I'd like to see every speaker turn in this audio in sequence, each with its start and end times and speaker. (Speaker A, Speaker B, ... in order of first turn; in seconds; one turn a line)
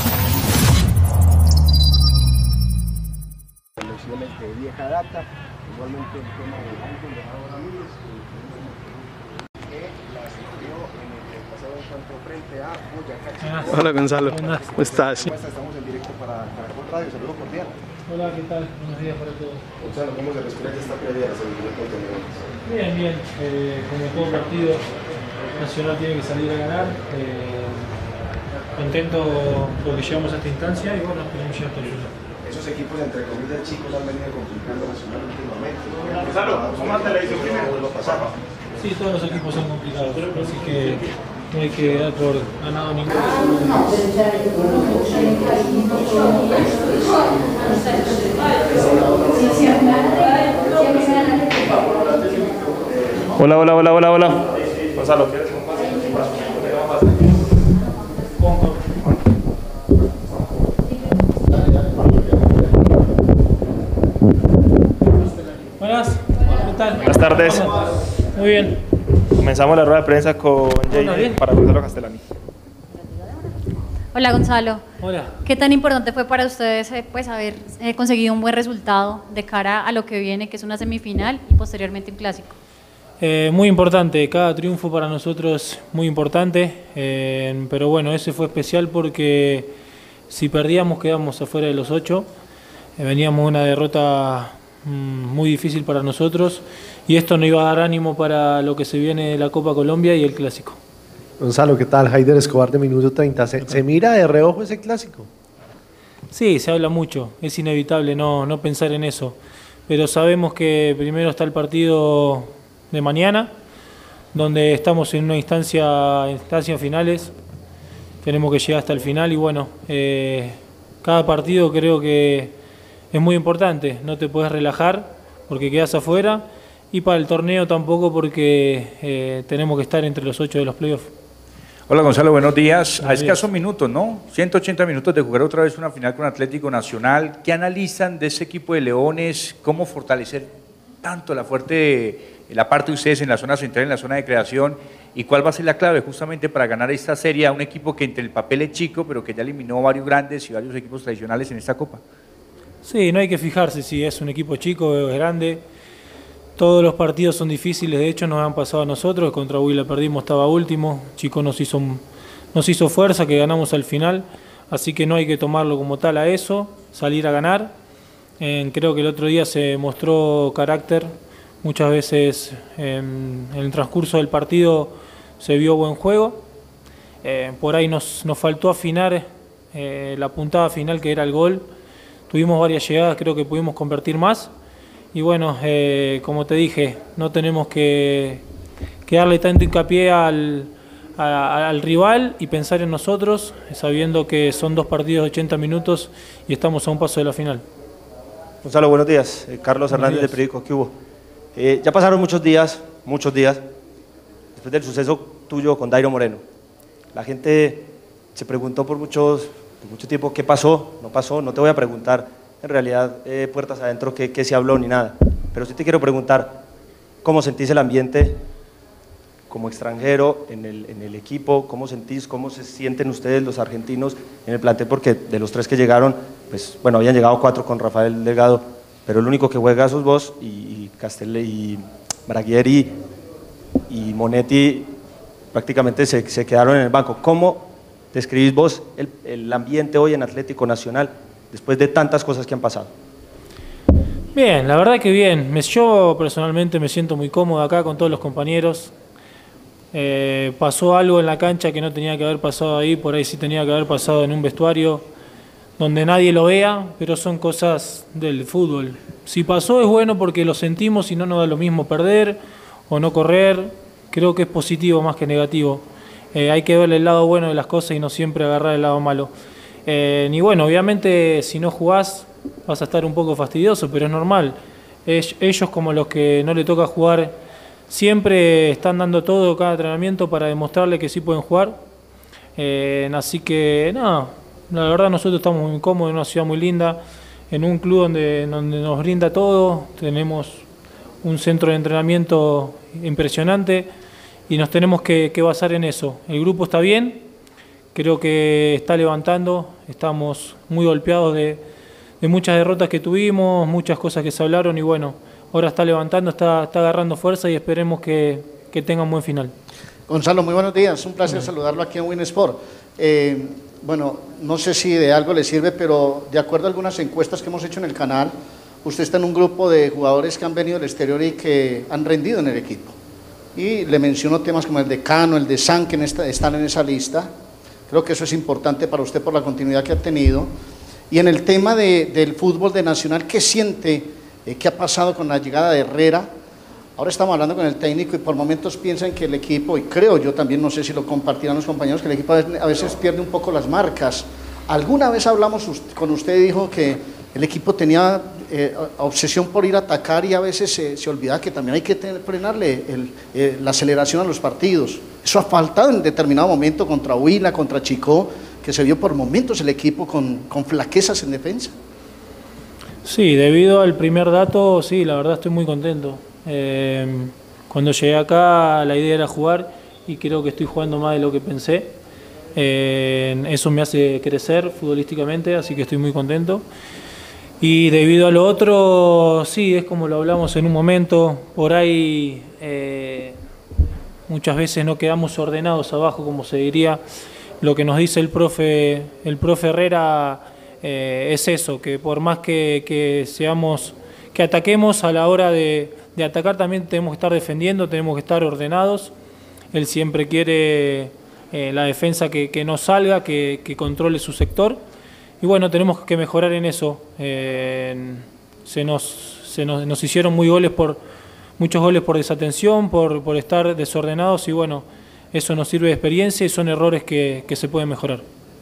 Speaker A: 3.8-8.7
Speaker A: 9.7-17.7
Speaker B: 13.4-14.9
Speaker B: 18.1-19.6
Speaker A: 19.8-22.4
Speaker B: 22.6-24.9
Speaker B: 25.6-27.9
Speaker B: 28.8-32.1
Speaker A: 32.4-38.3
Speaker B: 38.8-43.8
Speaker C: 44.6-46.4
Speaker D: 53.3-57.0
Speaker B: 58.4-58.8
Speaker B: 65.8-68.8
Speaker D: 67.0-67.7
Speaker D: 69.4-72.3
Speaker B: 70.9-71.4
Speaker C: 73.0-73.5
Speaker C: 74.1-74.8
Speaker B: 75.0-75.4
Speaker C: 75.4-82.6
Speaker B: 83.2-89.7
Speaker B: 90.3-92.3
Speaker B: 93.0-100.8
Speaker E: 101.4-105.3
Speaker B: 106.3-113.5
Speaker B: 114.3-117.4
Speaker B: 118.2-122.5
Speaker B: 123.1-131.1
Speaker F: 131.9-140.5
Speaker B: 133.0-133.5
Speaker F: 141.0-152.0
Speaker B: 152.8-155.6
Speaker B: 156.6-162.0
Speaker B: 162.5-167.7
Speaker B: 168.4-176.4
Speaker B: 177.2-181.6
Speaker B: 182.3-184.5
Speaker B: 185.1-188.4
Speaker B: 189.1-197.6
Speaker G: 198.6-200.9
Speaker B: 199.9-200.4
Speaker G: 201.5-203.6
Speaker G: 204.5-206.4
Speaker G: 207.1-216.6
Speaker G: 217.2-218.4
Speaker G: 219.5-232.9
Speaker G: 233.9-234.9
Speaker G: 235.5-242.9
Speaker B: 244.3-248.9
Speaker B: 249.9-255.1
Speaker B: 255.8-269.3
Speaker B: 269.9-277.4
Speaker B: 277.9-281.8
Speaker B: 282.6-290.6
Speaker B: 291.2-293.9
Speaker B: 294.5-297.2
Speaker B: 297.9-301.6
Speaker B: 302.2-309.5
Speaker H: 310.1-318.3
Speaker H: 318.8-322.9
Speaker H: 323.6-327.3
Speaker H: 327.9-330.5
Speaker H: 331.1-336.3
Speaker H: 337.0-361.7
Speaker B: 363.0-371.9
Speaker B: 372.5-376.6
Speaker B: 377.6-383.4
Speaker B: 384.3-387.0
Speaker B: 387.6-399.1
Speaker B: 399.7-404.8
Speaker B: 405.4-411.0
Speaker B: 411.6-418.2